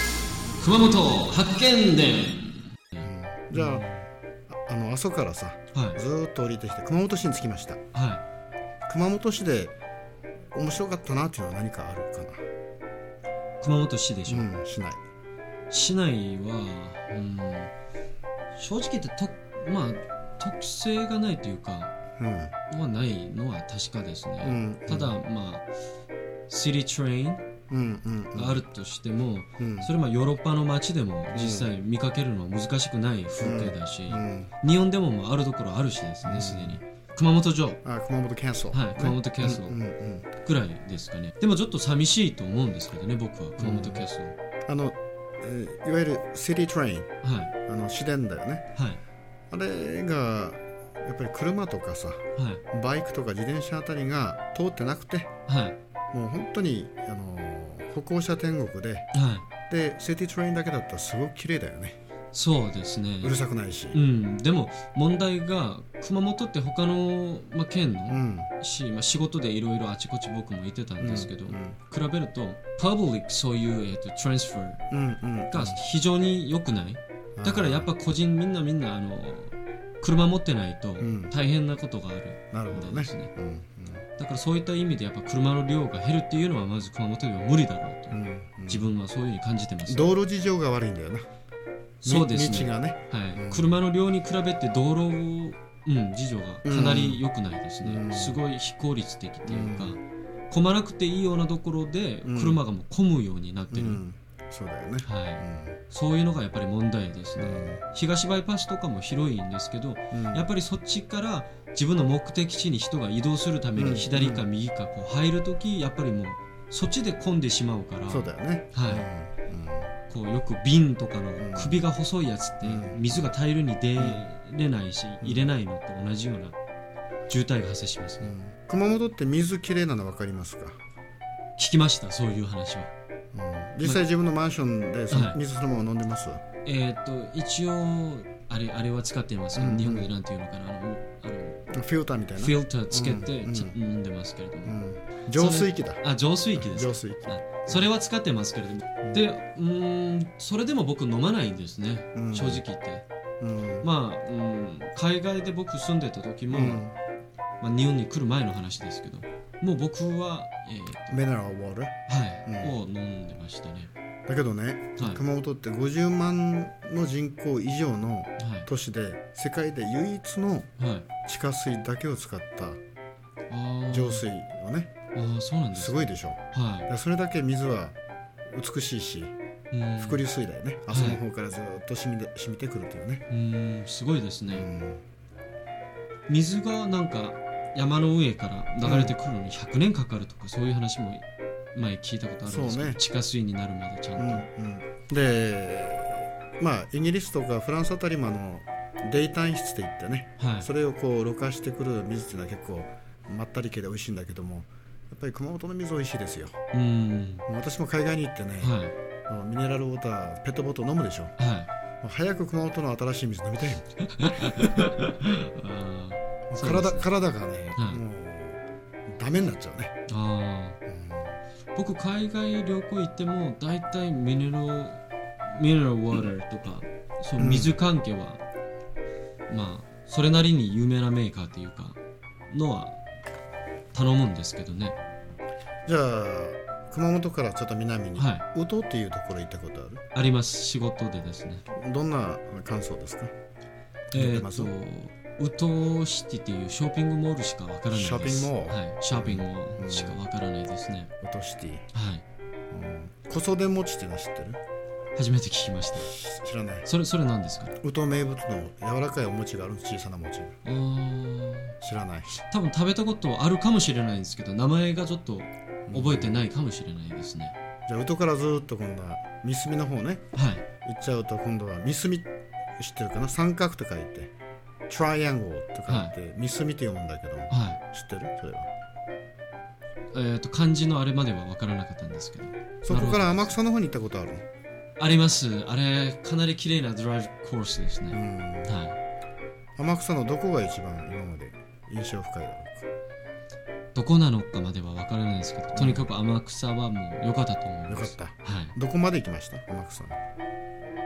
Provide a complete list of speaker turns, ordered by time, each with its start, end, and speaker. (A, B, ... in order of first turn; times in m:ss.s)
0:00.6-0:04.0 A
0:03.0-0:04.0 B
0:04.5-0:07.8 B
0:05.7-0:06.0 A
0:07.9-0:08.2 A
0:08.9-0:09.7 B
0:10.5-0:12.4 B
0:13.6-0:14.5 A
0:14.3-0:15.0 B
0:15.7-0:17.7 A
0:18.5-0:21.9 A
0:22.2-0:22.5 B
0:22.7-0:25.7 A
0:24.4-0:25.2 B
0:26.5-0:27.5 A
0:27.7-0:28.6 B
0:28.3-0:37.8 A
0:29.6-0:29.9 B
0:31.3-0:31.7 B
0:33.4-0:34.5 B
0:36.2-0:36.8 B
0:37.8-0:40.3 B
0:38.7-0:39.8 A
0:40.4-0:44.4 A
0:43.6-0:44.1 B
0:44.7-0:47.1 B
0:47.2-0:47.5 A
0:47.6-0:48.7 B
0:48.7-0:49.0 A
0:49.5-0:55.3 B
0:52.4-0:52.6 A
0:55.5-0:55.8 A
0:56.1-0:59.1 B
0:59.1-0:59.5 A
0:59.7-1:02.0 B
1:02.3-1:03.3 A
1:03.2-1:04.0 B
1:03.9-1:14.8 A
1:08.1-1:08.5 B
1:11.0-1:11.8 B
1:14.9-1:15.8 B
1:15.5-1:23.3 A
1:17.4-1:17.9 B
1:21.0-1:21.3 B
1:22.5-1:24.0 B
1:24.2-1:30.1 A
1:28.1-1:28.9 B
1:29.8-1:31.3 B
1:32.0-1:44.0 A
1:32.0-1:33.8 B
1:36.6-1:37.2 B
1:37.8-1:38.4 B
1:39.4-1:40.0 B
1:42.2-1:42.6 B
1:43.7-1:45.8 B
1:45.0-1:59.1 A
1:47.4-1:47.8 B
1:50.1-1:50.5 B
1:53.8-1:54.5 B
1:58.1-1:59.9 B
2:00.1-2:06.6 A
2:01.4-2:01.8 B
2:02.6-2:03.3 B
2:05.2-2:05.5 B
2:07.3-2:08.3 A
2:08.2-2:10.8 B
2:11.6-2:12.9 A
2:13.3-2:16.4 B
2:15.1-2:15.4 A
2:16.6-2:21.6 A
2:19.5-2:20.1 B
2:21.7-2:23.8 B
2:22.4-2:24.8 A
2:24.6-2:27.9 B
2:25.3-2:33.0 A
2:32.1-2:32.6 B
2:33.4-2:33.9 B
2:33.8-2:36.8 A
2:36.5-2:36.9 B
2:37.6-2:41.2 A
2:41.1-2:41.9 B
2:42.1-2:43.9 A
2:42.4-2:42.7 B
2:44.3-2:50.7 B
2:48.4-2:48.7 A
2:50.8-2:51.1 A
2:51.2-2:52.8 B
2:53.5-2:54.2 A
2:53.9-2:54.9 B
2:55.1-2:56.9 A
2:55.7-2:58.0 B
2:58.5-2:59.3 B
2:59.7-3:00.2 A
3:00.0-3:03.2 B
3:00.9-3:01.2 A
3:03.3-3:04.6 A
3:04.5-3:05.0 B
3:06.3-3:14.4 A
3:08.8-3:09.1 B
3:12.4-3:13.0 B
3:14.2-3:26.6 B
3:20.4-3:20.7 A
3:26.7-3:27.4 A
3:27.5-3:31.3 B
3:28.6-3:28.9 A
3:31.4-3:31.7 A
3:32.0-3:34.8 B
3:34.0-3:37.1 A
3:36.5-3:40.0 B
3:37.8-3:38.0 A
3:40.1-3:40.8 A
3:40.9-3:41.4 B
3:41.7-3:48.4 A
3:47.4-3:47.8 B
3:49.5-3:52.0 A
3:52.5-3:53.0 A
3:53.9-3:55.0 A
3:55.8-4:00.0 B
3:58.2-3:58.4 A
4:00.1-4:01.6 A
4:01.7-4:03.3 B
4:04.1-4:11.1 A
4:04.1-4:04.7 B
4:07.9-4:10.2 B
4:11.2-4:11.8 B
4:11.9-4:12.2 A
4:12.7-4:14.6 B
4:15.2-4:16.1 A
4:16.0-4:16.9 B
4:16.8-4:17.8 A
4:17.8-4:20.6 B
4:20.6-4:21.8 A
4:21.8-4:22.4 B
4:22.4-4:27.5 A
4:25.9-4:26.4 B
4:27.9-4:30.2 B
4:30.3-4:30.6 A
4:30.8-4:32.3 B
4:32.8-4:34.3 B
4:34.9-4:38.7 B
4:35.9-4:36.1 A
4:37.5-4:37.8 A
4:40.1-4:43.5 A
4:42.8-4:44.4 B
4:45.0-4:49.0 A
4:48.1-4:48.7 B
4:49.8-4:52.9 B
4:53.9-4:58.7 A
4:55.7-4:56.0 B
4:57.9-5:00.2 B